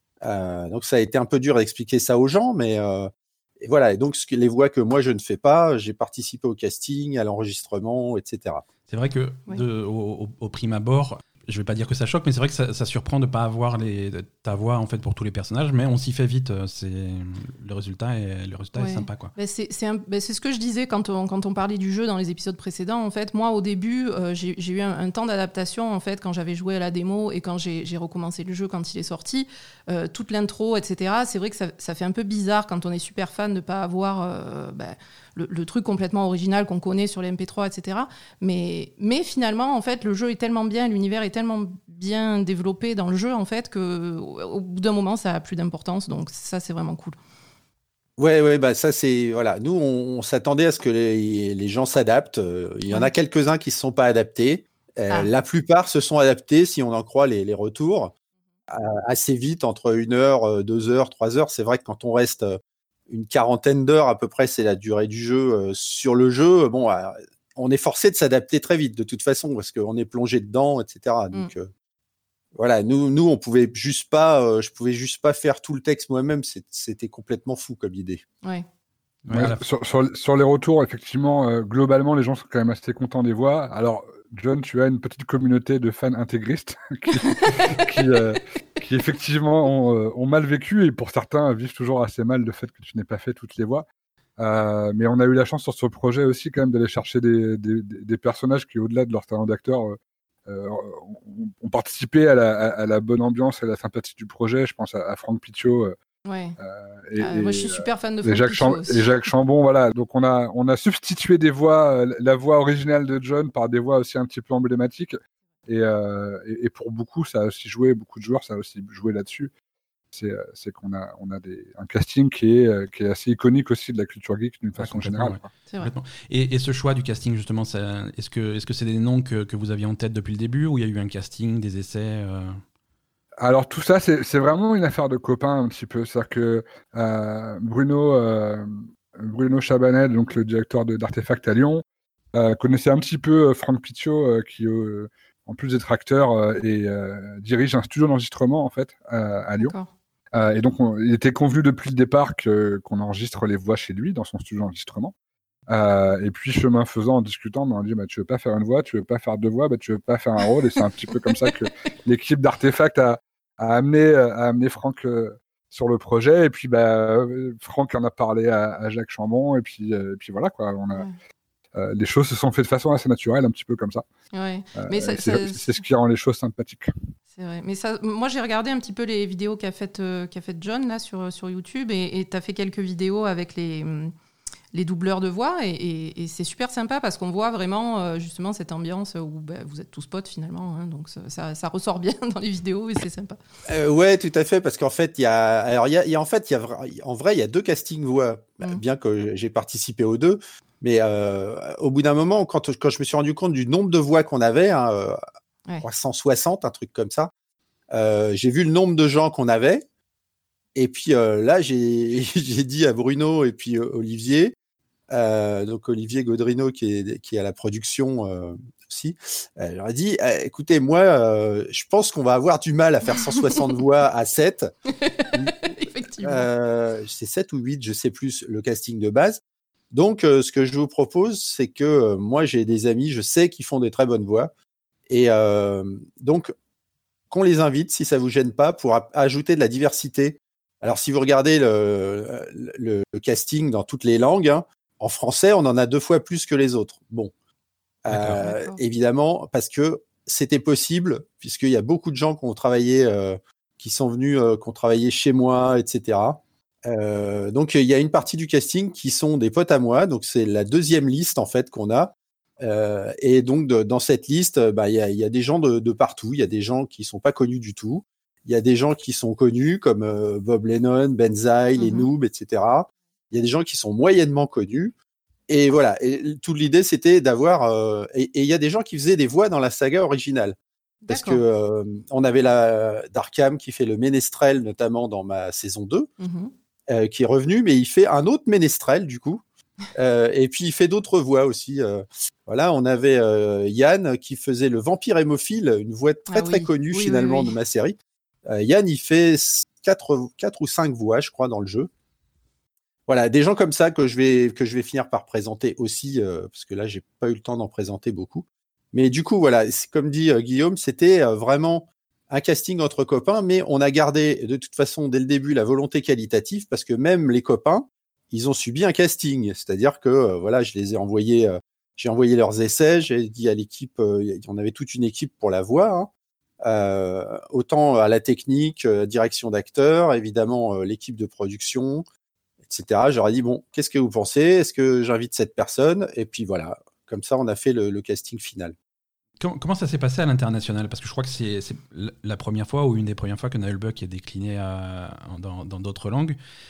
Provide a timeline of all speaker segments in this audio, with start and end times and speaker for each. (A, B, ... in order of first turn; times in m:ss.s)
0:00.2-0:08.6 A
0:08.9-0:19.3 B
0:18.8-0:47.2 C
0:48.2-0:58.1 A
0:58.7-1:11.7 A
1:12.6-1:18.2 A
1:19.2-1:19.6 B
1:19.3-1:33.8 D
1:27.3-1:27.8 C
1:34.4-1:46.0 D
1:46.2-1:46.6 C
1:46.6-1:59.5 D
1:47.2-1:49.1 C
2:00.1-2:05.5 D
2:04.8-2:12.6 B
2:13.4-2:21.8 D
2:22.3-2:29.7 D
2:29.6-2:29.9 C
2:30.3-2:35.1 D
2:35.7-2:51.0 D
2:51.8-2:54.0 D
2:54.3-2:55.8 C
2:54.8-2:56.9 D
2:57.4-3:04.1 C
3:04.7-3:13.4 C
3:13.7-3:25.2 A
3:25.8-3:27.3 A
3:27.9-3:29.8 A
3:30.7-3:34.5 A
3:35.1-3:44.7 A
3:44.9-3:46.5 C
3:46.2-3:49.4 A
3:49.9-3:54.5 A
3:55.1-3:56.5 A
3:57.3-4:07.3 A
4:08.0-4:34.9 A
4:08.1-4:08.4 B
4:08.4-4:08.8 C
4:31.8-4:32.1 C
4:35.5-4:40.6 A
4:41.0-4:41.4 C
4:41.1-4:46.1 A
4:46.2-4:46.5 C
4:46.9-4:49.4 A
4:49.9-4:58.0 A
4:56.3-4:57.5 C
4:58.5-5:01.9 A
5:03.1-5:26.1 A
5:26.6-5:32.0 A
5:32.7-5:38.7 A
5:39.4-5:46.4 B